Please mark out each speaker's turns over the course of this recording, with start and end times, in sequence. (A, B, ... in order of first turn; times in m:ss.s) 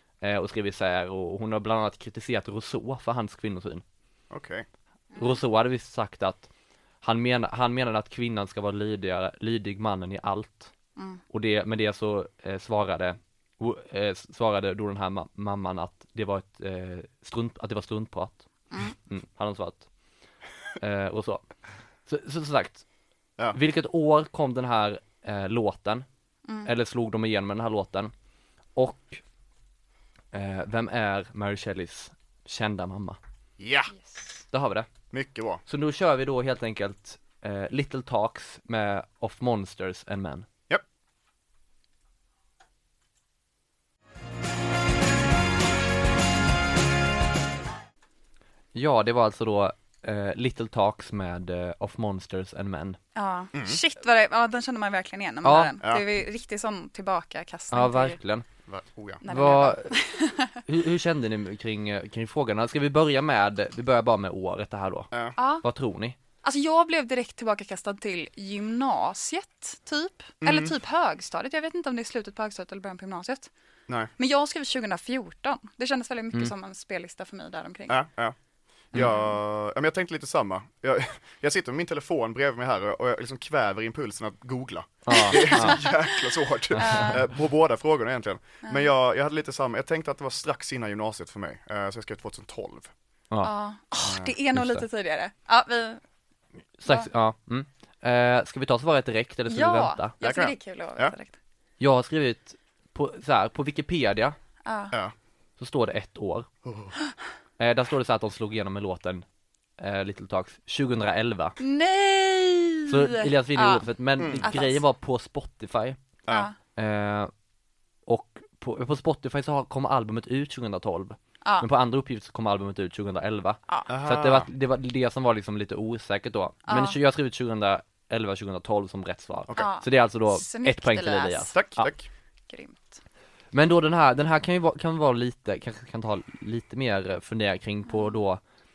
0:00.2-0:03.8 A
0:04.3-0:04.6 B
0:05.2-0:06.5 A
0:07.0-0:10.7 A
0:11.0-0:11.2 C
0:11.3-0:19.9 A
0:20.8-0:21.4 A
0:22.0-0:22.8 A
0:23.5-0:26.0 A
0:26.6-0:28.1 A
0:28.8-0:29.2 A
0:30.3-0:33.2 A
0:33.6-0:33.9 B
0:34.0-0:34.2 C
0:34.5-0:34.9 A
0:35.1-0:35.6 B
0:35.7-0:40.5 A
0:48.7-0:53.0 A
0:53.1-0:58.2 C
0:55.4-0:55.7 A
0:57.7-0:58.4 A
0:58.7-0:59.2 B
0:59.2-1:00.6 C
0:59.2-1:00.0 A
1:00.6-1:05.1 A
1:05.4-1:05.6 C
1:05.6-1:06.2 A
1:06.4-1:13.5 C
1:10.4-1:10.7 B
1:14.2-1:18.0 C
1:17.9-1:18.4 B
1:18.9-1:32.9 B
1:19.0-1:19.3 C
1:25.0-1:25.8 A
1:25.1-1:26.0 C
1:26.7-1:27.2 C
1:26.7-1:27.1 A
1:33.4-1:36.0 C
1:34.0-1:34.3 B
1:34.5-1:34.8 A
1:36.8-1:40.1 A
1:39.5-1:41.3 C
1:40.2-1:41.1 B
1:41.8-1:44.4 A
1:44.6-1:44.9 C
1:45.6-1:46.5 A
1:46.6-1:46.9 B
1:47.6-1:49.2 A
1:49.8-1:51.6 A
1:51.6-1:54.8 C
1:52.9-1:56.0 A
1:54.2-1:54.4 B
1:56.3-1:56.5 C
1:56.8-1:57.3 A
1:58.1-2:11.9 A
2:01.4-2:01.7 C
2:03.9-2:04.5 B
2:06.6-2:07.0 C
2:09.5-2:11.5 C
2:11.5-2:12.1 B
2:12.5-2:13.0 C
2:13.5-2:18.4 A